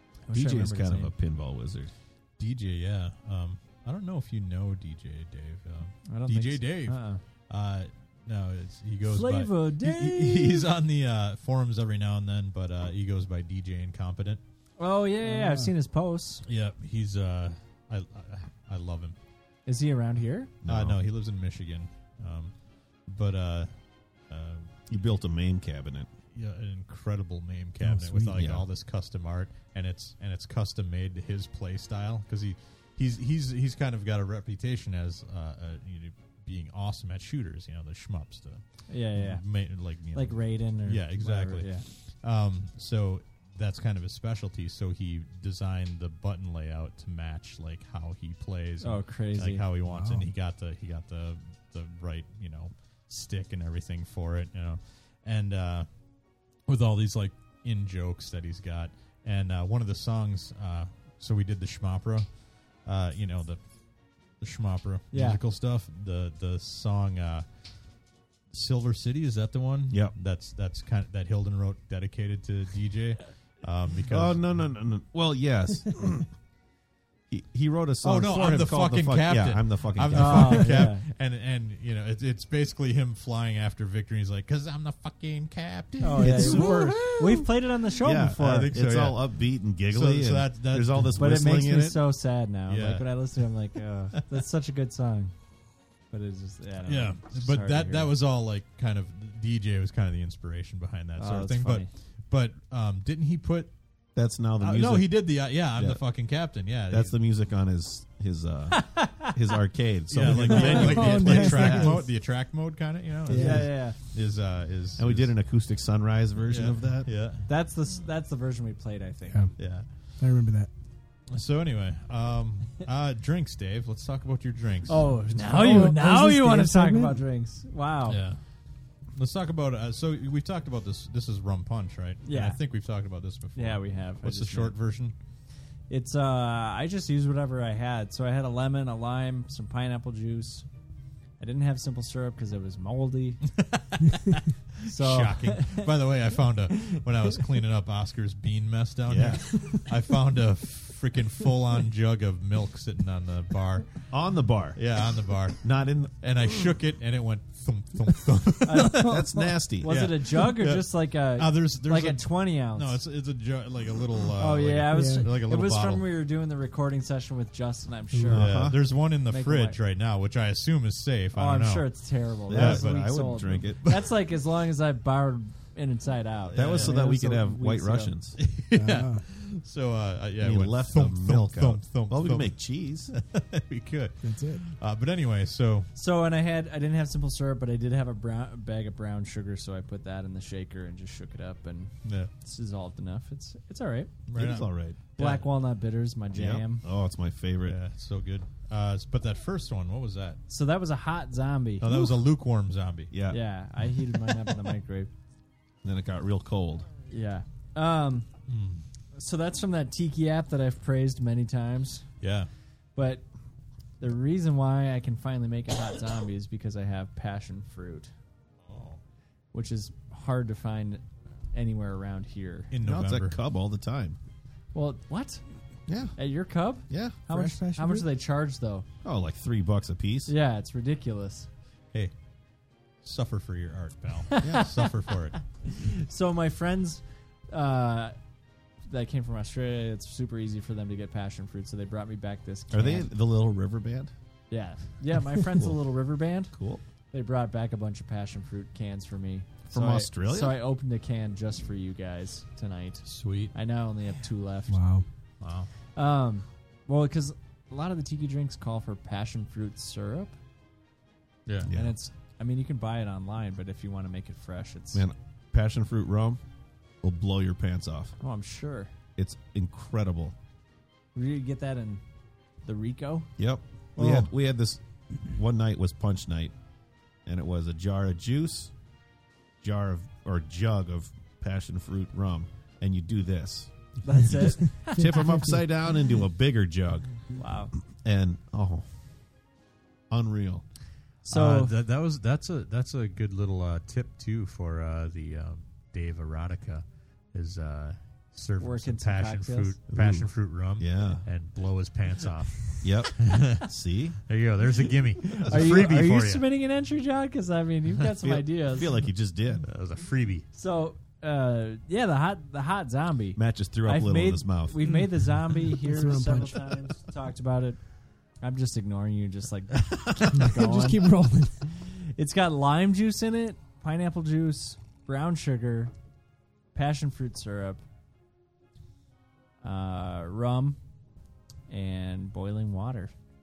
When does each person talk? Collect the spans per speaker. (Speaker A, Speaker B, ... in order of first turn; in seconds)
Speaker A: 0.3-1.1, 6.1-7.2, 9.1-10.7, 14.8-16.4, 19.7-20.5, 38.9-39.5, 40.1-41.9, 48.8-49.7, 65.1-65.4, 80.1-81.0, 86.0-88.8, 91.2-95.3, 96.1-98.1, 101.2-101.9, 108.7-109.3, 113.3-114.0, 117.5-119.5, 124.9-128.2, 132.2-132.6, 133.6-134.8, 135.9-140.7, 141.4-143.4, 144.8-145.9, 158.6-159.2, 159.8-163.0, 164.4-169.8, 171.3-178.1, 185.9-194.1, 195.2-196.8, 200.5-201.9, 203.3-205.1, 207.1-208.3, 209.1-212.1, 213.0-213.2, 214.0-218.1, 219.5-222.7, 224.7-225.4, 226.2-228.8, 230.3-231.5, 234.3-234.9, 235.7-238.2, 238.9-243.1, 244.5-246.5, 247.1-254.8, 255.9-260.4, 261.7-265.1, 268.2-268.9, 271.1-272.0, 272.6-273.3, 284.0-285.2, 287.4-287.7, 291.2-291.7, 298.6-299.8, 305.3-308.9, 310.5-317.8, 318.4-321.1, 321.7-325.9, 326.8-327.8, 329.6-330.8, 331.7-333.1
Speaker B: 0.3-1.9, 20.6-21.0, 24.9-26.1, 28.3-28.7, 69.9-70.1, 74.1-76.3, 77.3-80.8, 88.0-92.0, 104.1-106.0, 106.9-112.0, 115.0-117.1, 149.1-149.8, 154.1-154.8, 155.6-156.2, 159.0-159.9, 168.3-168.8, 172.5-173.8, 176.6-178.4, 180.4-183.1, 194.3-195.0, 196.3-197.8, 201.8-202.3, 203.1-203.4, 205.8-206.9, 222.8-224.2, 225.9-226.2, 226.9-227.3, 229.0-230.3, 234.4-234.7, 242.7-244.1, 246.5-246.8, 249.7-250.6, 261.6-261.9, 264.9-266.4, 267.0-268.2, 269.2-270.4, 273.4-276.5, 277.3-278.7, 279.6-287.2, 288.0-288.9, 290.1-290.6, 299.9-301.2, 302.8-304.2, 305.4-305.9, 308.2-309.7, 313.4-314.9
Speaker C: 2.4-14.4, 16.4-19.2, 20.6-23.7, 24.3-24.7, 26.3-55.9, 56.7-63.6, 64.4-67.5, 68.5-74.6, 78.0-87.2, 88.4-91.2, 92.7-93.1, 96.8-103.7, 104.6-107.2, 110.1-115.3, 116.5-117.5, 119.6-119.9, 121.3-126.0, 128.1-128.4, 129.1-135.1, 143.6-154.1, 154.8-155.7, 156.2-159.2, 159.8-166.0, 168.3-171.9, 172.4-173.0, 176.5-176.9, 178.4-185.9, 192.0-192.3, 194.3-195.5, 197.6-200.4, 201.8-203.1, 208.5-208.8, 212.2-212.5, 218.7-219.0, 222.7-223.4, 233.0-235.4, 253.1-253.5, 255.4-255.7, 261.5-261.7, 274.0-274.3, 291.3-303.7, 304.3-306.4, 309.6-310.5, 319.9-320.2
Speaker D: 15.2-15.7, 27.8-28.4, 49.9-50.3, 86.1-87.0, 110.5-112.1, 113.3-113.7, 119.3-119.5, 120.2-120.7, 125.3-127.2, 158.9-159.2, 164.9-165.3, 168.1-168.4, 178.7-179.2, 184.2-184.6, 227.3-228.1, 254.7-255.1, 284.2-285.6, 315.7-316.8, 320.3-321.6